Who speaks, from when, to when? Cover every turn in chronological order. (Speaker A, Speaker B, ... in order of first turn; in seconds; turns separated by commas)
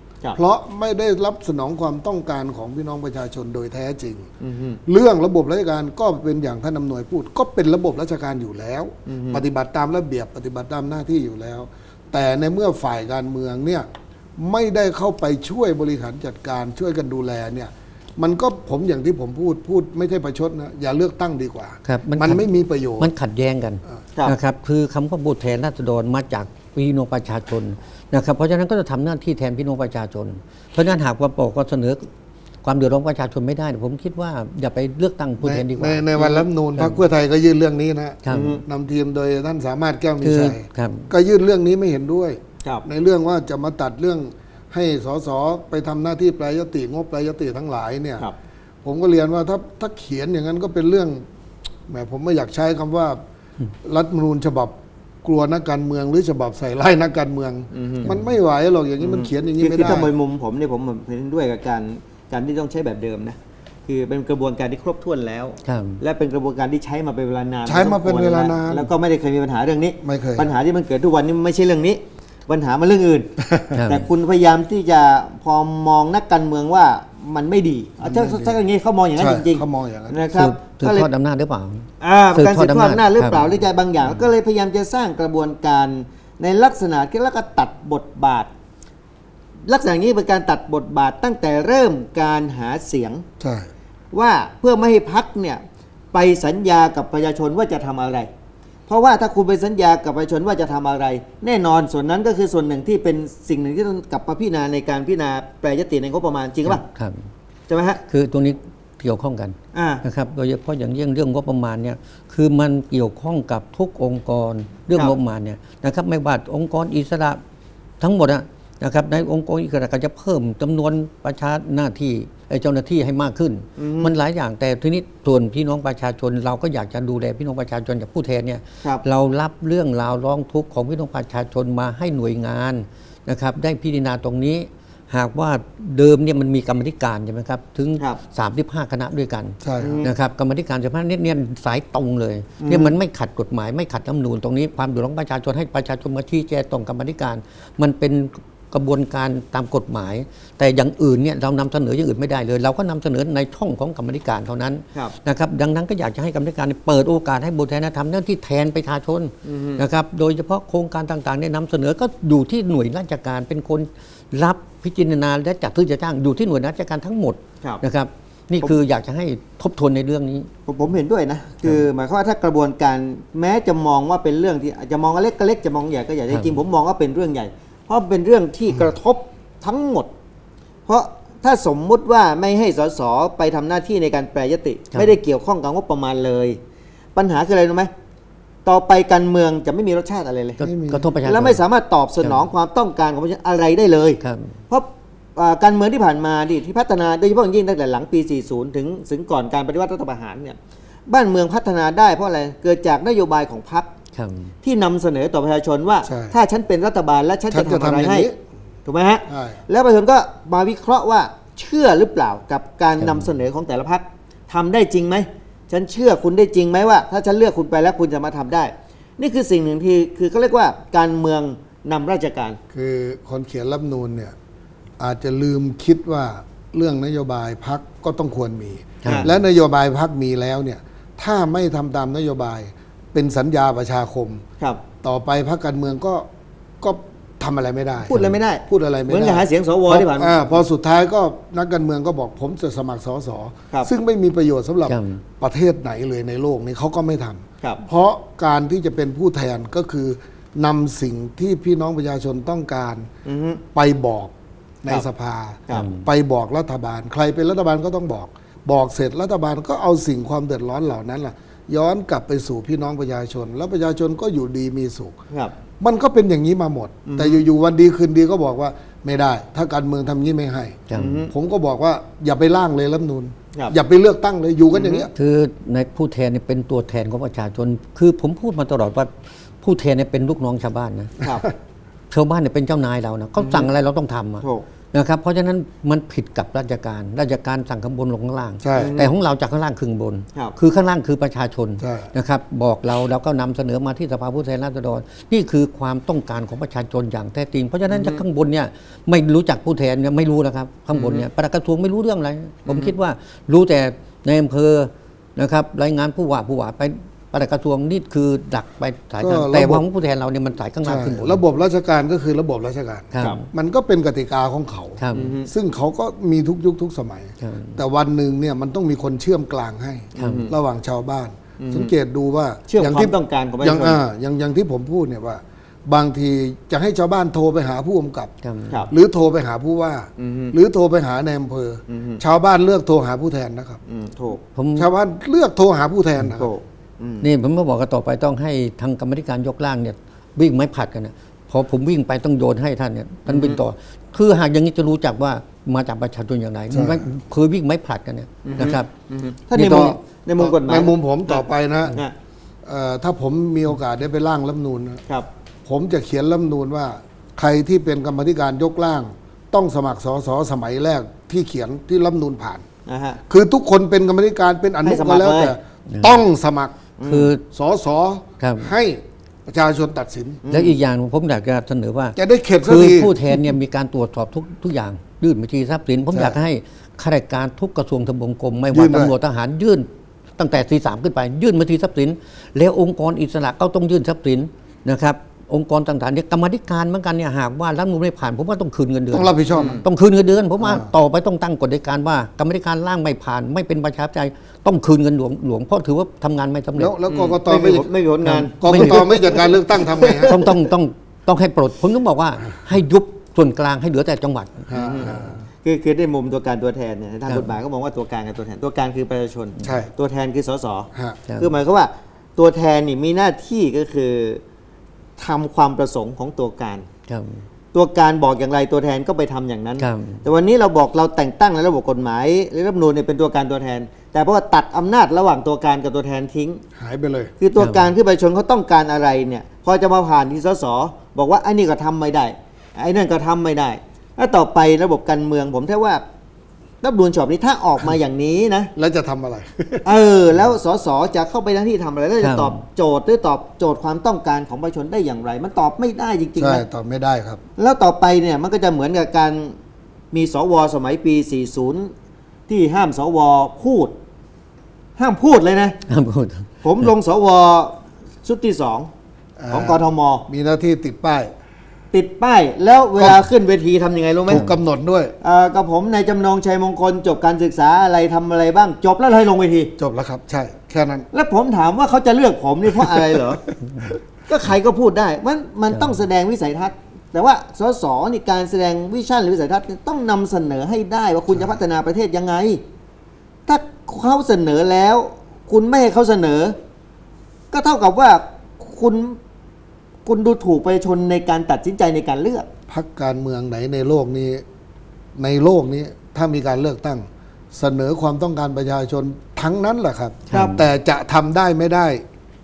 Speaker A: 0.3-4.3, Speaker B: 4.4-4.8, Speaker A: 4.8-13.8, Speaker B: 9.1-9.4, Speaker A: 14.4-23.1, Speaker C: 21.8-32.0, Speaker C: 32.6-37.0, Speaker A: 35.4-48.2, Speaker C: 38.2-38.6, Speaker B: 38.3-38.6, Speaker C: 40.2-41.1, Speaker A: 48.8-51.2, Speaker A: 51.9-53.2, Speaker A: 53.8-60.1, Speaker B: 57.7-58.1, Speaker B: 59.0-73.3, Speaker C: 65.6-66.0, Speaker A: 67.7-68.9, Speaker A: 70.0-70.5, Speaker A: 73.4-73.8, Speaker C: 73.7-74.0, Speaker B: 73.8-81.1, Speaker A: 78.0-78.6, Speaker A: 79.2-80.2, Speaker C: 80.3-83.4, Speaker B: 82.0-88.5, Speaker B: 89.7-93.2, Speaker A: 93.4-93.7, Speaker B: 94.1-98.3, Speaker B: 98.9-106.8, Speaker C: 106.6-107.3, Speaker B: 107.7-108.0, Speaker C: 108.1-117.4, Speaker B: 109.7-110.0, Speaker C: 118.0-170.5, Speaker B: 123.8-124.1, Speaker A: 139.6-140.0, Speaker B: 139.8-140.1, Speaker B: 142.6-142.9, Speaker B: 159.4-159.8, Speaker B: 170.7-180.1, Speaker B: 180.9-186.6, Speaker B: 187.1-187.9, Speaker B: 188.6-190.6, Speaker C: 190.6-191.6, Speaker A: 190.6-191.0, Speaker B: 191.2-200.6, Speaker C: 192.2-192.5, Speaker C: 194.2-194.6, Speaker B: 201.1-203.9, Speaker C: 204.1-204.5, Speaker B: 204.6-208.3, Speaker A: 206.0-206.3, Speaker A: 207.5-208.4, Speaker B: 208.8-222.6, Speaker A: 209.3-209.6, Speaker C: 213.0-213.4, Speaker A: 222.7-224.3, Speaker A: 225.0-234.4, Speaker C: 229.0-229.3, Speaker B: 229.0-229.3, Speaker A: 235.0-236.2, Speaker A: 236.8-253.1, Speaker B: 238.0-240.4, Speaker C: 244.9-245.2, Speaker B: 253.2-253.6, Speaker A: 253.7-265.2, Speaker C: 255.7-256.1, Speaker A: 265.8-275.1, Speaker B: 267.1-267.4, Speaker C: 270.9-271.2, Speaker B: 270.9-271.3, Speaker B: 274.7-275.1, Speaker C: 275.1-279.1, Speaker C: 279.6-281.1, Speaker B: 281.2-281.4, Speaker C: 282.1-311.4, Speaker B: 283.4-283.7, Speaker A: 288.6-288.9, Speaker B: 288.7-289.1, Speaker A: 291.8-292.1, Speaker B: 297.9-298.2, Speaker B: 300.9-301.2, Speaker B: 302.7-302.9, Speaker A: 309.2-309.8, Speaker A: 310.8-328.3, Speaker C: 313.1-313.5, Speaker C: 315.0-315.3, Speaker B: 315.1-315.5, Speaker C: 317.4-317.8, Speaker C: 320.1-320.5, Speaker B: 320.1-320.5, Speaker B: 321.6-321.9, Speaker B: 322.7-324.0, Speaker C: 328.4-328.8, Speaker A: 328.9-333.8, Speaker B: 330.2-330.5, Speaker B: 331.9-332.2, Speaker B: 333.9-334.4, Speaker C: 334.5-334.9, Speaker A: 334.8-336.5, Speaker B: 336.4-337.2, Speaker C: 337.2-348.9, Speaker B: 343.3-343.6, Speaker A: 346.7-347.1, Speaker B: 348.4-352.1, Speaker C: 349.5-350.0, Speaker A: 349.6-352.0, Speaker A: 352.6-355.0, Speaker A: 355.6-362.6, Speaker B: 362.9-363.2, Speaker A: 363.3-366.7, Speaker B: 364.8-365.5, Speaker C: 365.9-366.2, Speaker B: 367.0-367.3, Speaker C: 367.0-367.4, Speaker A: 367.5-370.4, Speaker C: 368.4-368.7, Speaker B: 370.4-370.7, Speaker C: 370.5-396.9, Speaker A: 372.1-373.4, Speaker A: 378.7-379.1, Speaker A: 389.1-389.8, Speaker B: 389.5-389.8, Speaker A: 390.6-390.9, Speaker A: 396.8-397.9, Speaker B: 397.1-400.4, Speaker C: 398.2-405.3, Speaker A: 398.6-400.4, Speaker A: 404.7-405.4, Speaker B: 404.7-414.4, Speaker A: 409.6-409.9, Speaker A: 410.9-411.2, Speaker B: 415.2-416.9, Speaker C: 417.1-417.5, Speaker B: 417.7-426.6, Speaker C: 419.8-420.2, Speaker A: 426.8-427.3, Speaker B: 427.4-436.0, Speaker C: 427.6-427.9, Speaker B: 436.8-438.7, Speaker A: 438.8-439.9, Speaker B: 439.8-446.6, Speaker C: 442.2-442.6, Speaker A: 446.4-447.4, Speaker B: 447.6-449.6, Speaker B: 450.1-451.9, Speaker B: 452.5-453.9, Speaker B: 455.0-455.8, Speaker C: 455.9-456.9, Speaker B: 456.6-458.9, Speaker A: 459.4-461.3, Speaker B: 459.5-460.2, Speaker B: 461.9-464.4, Speaker A: 464.3-465.1, Speaker B: 465.2-469.7, Speaker A: 469.8-471.1, Speaker B: 471.1-473.4, Speaker A: 472.8-473.9, Speaker B: 474.3-482.6, Speaker B: 483.5-486.6, Speaker B: 487.5-489.2, Speaker B: 490.1-492.5, Speaker A: 492.7-494.4, Speaker A: 495.1-502.0, Speaker C: 500.3-500.7, Speaker B: 500.3-500.6